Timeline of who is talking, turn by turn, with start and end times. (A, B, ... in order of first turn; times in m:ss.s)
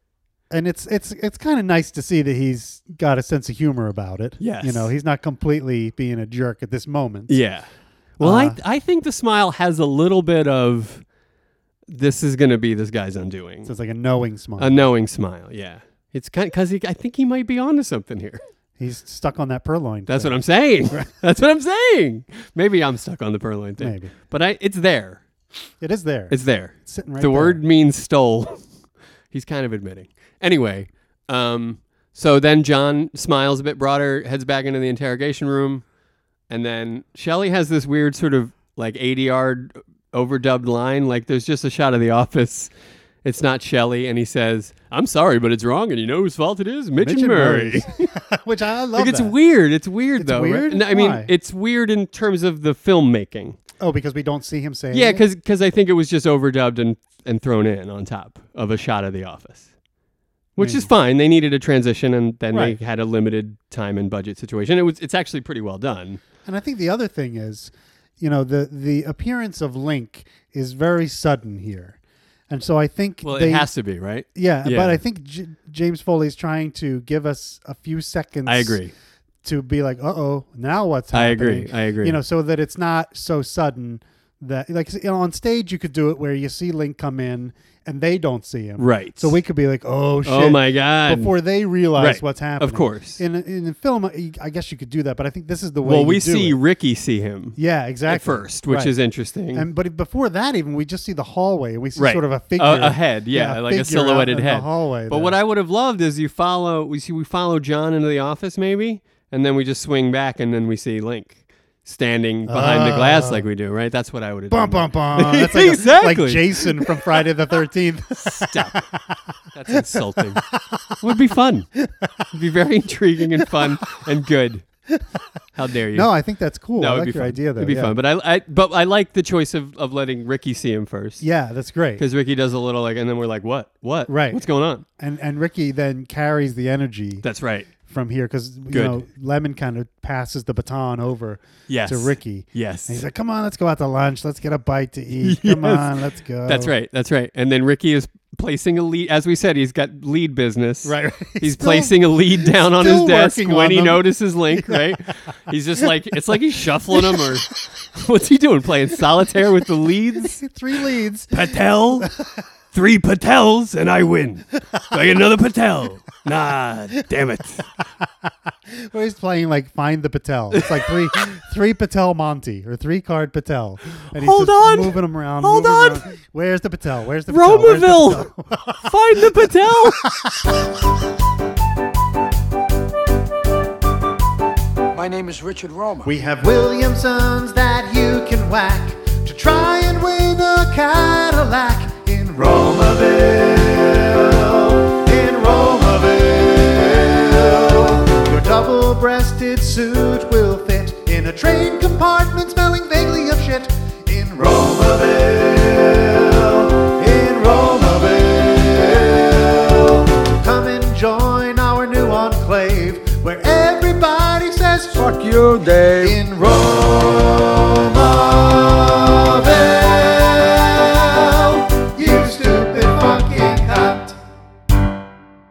0:00.5-0:07.4 A
0:04.4-0:04.9 B
0:07.3-0:11.1 B
0:08.2-0:08.6 A
0:11.9-0:13.7 B
0:13.6-0:14.8 A
0:14.6-0:18.4 B
0:18.8-0:20.4 A
0:20.1-0:25.2 B
0:23.8-0:24.1 A
0:25.8-0:27.6 A
0:26.3-0:28.7 B
0:29.3-0:35.8 B
0:36.5-0:42.7 B
0:43.2-0:48.0 B
0:47.0-0:49.4 A
0:49.0-0:53.6 B
0:50.2-0:51.3 A
0:53.8-0:55.2 A
0:54.9-0:59.7 B
1:00.6-1:06.2 B
1:00.6-1:00.9 A
1:02.5-1:02.8 A
1:06.4-1:12.0 A
1:12.5-1:13.7 A
1:13.2-1:15.0 B
1:14.4-1:18.8 A
1:18.5-1:18.9 B
1:19.4-1:36.6 A
1:21.1-1:22.2 B
1:28.8-1:29.4 B
1:30.2-1:31.3 B
1:32.0-1:33.2 B
1:35.8-1:39.7 B
1:37.6-1:38.9 A
1:39.5-1:45.4 A
1:42.0-1:57.0 B
1:52.5-1:53.5 A
1:54.5-2:01.0 A
1:58.2-1:58.8 B
1:59.5-2:00.4 B
2:01.0-2:01.7 B
2:01.8-2:02.2 A
2:02.3-2:04.7 B
2:03.4-2:03.7 A
2:05.6-2:06.1 B
2:05.9-2:07.9 A
2:06.8-2:11.2 B
2:11.2-2:12.0 A
2:12.0-2:14.8 B
2:14.1-2:14.4 A
2:15.0-2:17.2 A
2:17.2-2:17.7 B
2:17.8-2:26.7 A
2:18.7-2:19.0 B
2:21.7-2:23.0 B
2:25.2-2:40.4 B
2:30.8-2:35.1 A
2:35.8-2:36.4 A
2:36.9-2:37.4 A
2:40.2-2:42.4 A
2:41.3-2:42.1 B
2:42.7-2:47.6 B
2:48.7-3:00.6 A
2:50.5-2:50.8 B
2:54.1-2:56.0 B
2:57.3-2:58.3 B
2:58.8-3:00.1 B
3:04.9-3:06.1 C
3:06.0-3:35.1 A
3:35.0-3:36.2 C
3:36.0-3:44.2 A